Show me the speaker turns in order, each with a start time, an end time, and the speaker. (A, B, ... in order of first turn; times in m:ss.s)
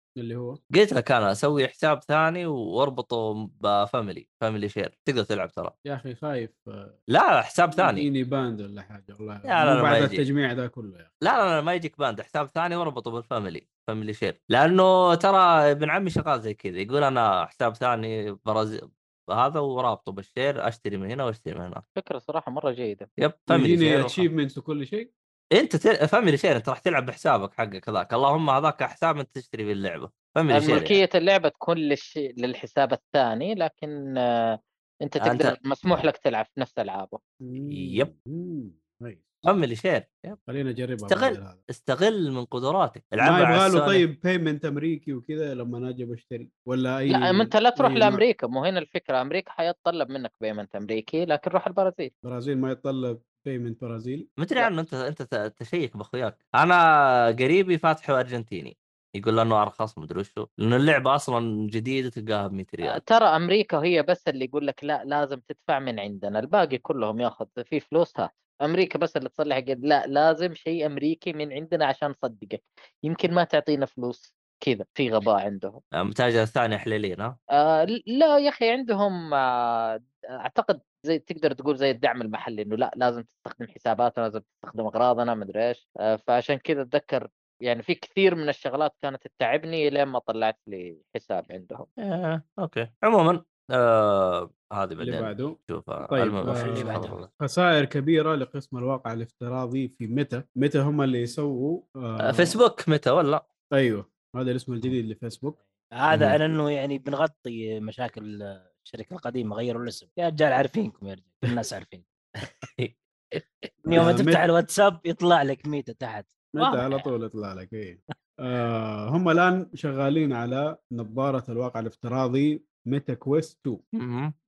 0:00.2-0:00.6 A
0:00.7-0:05.7 B
0:05.8-0:07.0 A
0:07.1-0:08.1 B
0:07.8-0:11.1 A
0:09.4-0:10.2 B
0:11.2-0:21.8 B
0:22.0-0:23.1 C
0:23.2-0:24.3 B
0:23.5-0:25.1 A
0:25.6-0:31.0 B
0:30.5-0:37.2 C
0:35.2-0:35.5 B
0:37.4-0:39.4 A
0:37.7-0:38.1 B
0:39.4-0:40.4 B
0:40.5-0:41.6 A
0:41.1-0:44.0 B
0:43.2-0:48.2 A
0:47.1-0:52.1 C
0:52.2-0:54.3 A
0:54.4-1:03.0 B
1:02.8-1:15.8 C
1:16.0-1:17.4 B
1:17.6-1:31.9 C
1:32.0-1:37.3 B
1:35.0-1:35.6 A
1:36.1-1:42.6 A
1:36.4-1:37.2 D
1:42.2-1:43.4 B
1:43.7-1:45.6 A
1:46.0-1:52.5 D
1:46.1-1:46.4 B
1:52.8-1:54.1 B
1:53.8-1:57.0 D
1:53.9-1:54.4 A
1:56.5-2:03.8 A
2:04.0-2:04.3 B